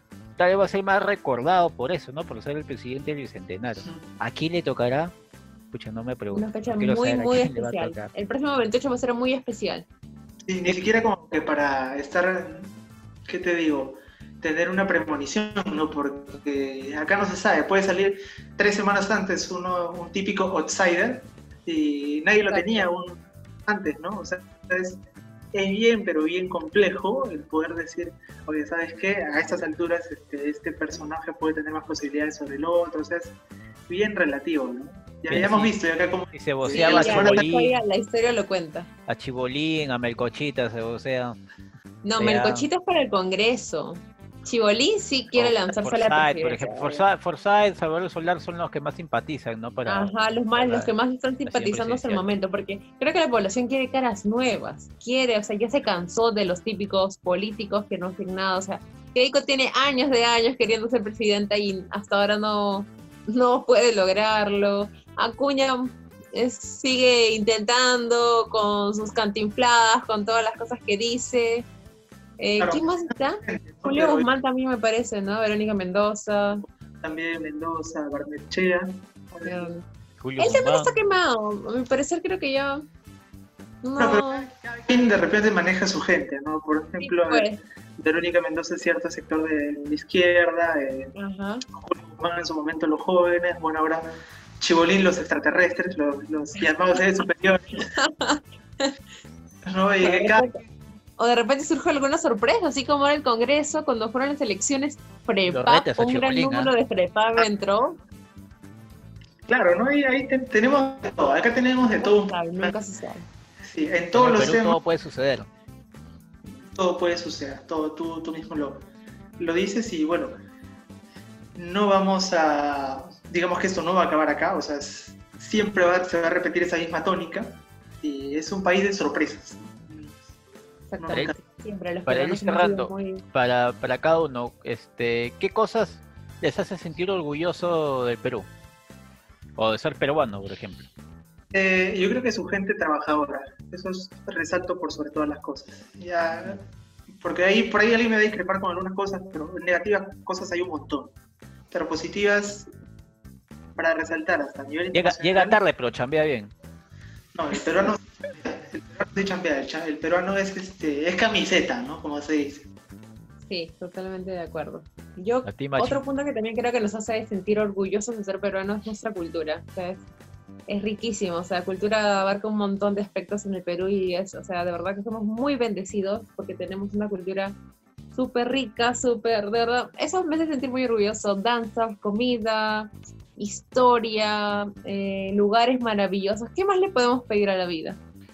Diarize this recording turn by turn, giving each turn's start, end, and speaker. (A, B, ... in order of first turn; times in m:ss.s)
0:00.4-0:05.1 A
0:05.7-0:08.1 A
0:06.3-0:09.8 B
0:10.5-0:12.7 C
0:13.3-0:25.0 C
0:22.5-0:22.9 B
0:25.5-0:33.4 C
0:33.9-0:37.4 C
0:35.3-0:35.7 A
0:36.3-0:37.8 A
0:36.7-0:38.9 B
0:39.1-0:41.4 A
0:42.0-0:47.0 B
0:42.2-0:42.6 A
0:45.3-0:50.9 A
0:49.8-1:11.7 B
0:51.4-0:52.3 A
1:12.4-1:16.6 B
1:12.6-1:14.3 C
1:16.5-1:19.7 C
1:19.4-1:19.8 B
1:20.2-1:20.9 A
1:20.4-1:22.9 B
1:23.8-1:24.5 B
1:24.0-1:31.1 C
1:27.0-1:27.6 B
1:31.1-1:31.6 B
1:31.7-1:34.1 C
1:34.6-1:37.8 C
1:37.9-1:38.9 B
1:39.6-1:40.4 C
1:40.0-1:40.6 B
1:41.2-1:48.0 B
1:45.4-1:46.7 A
1:49.5-1:52.7 C
1:52.0-1:53.3 B
1:53.6-1:54.8 C
1:54.1-1:55.5 A
1:56.7-1:58.8 C
1:59.4-2:00.3 C
2:01.6-2:10.2 C
2:10.9-2:13.2 B
2:11.0-2:11.3 C
2:12.1-2:18.5 A
2:19.6-2:20.9 A
2:21.5-2:26.6 C
2:27.2-2:31.1 C
2:31.7-2:32.7 C
2:33.8-2:35.6 C
2:34.9-2:36.5 A
2:37.3-2:42.7 C
2:43.4-2:50.0 B
2:45.4-2:46.0 A
2:50.7-2:57.5 B
2:58.1-3:08.0 B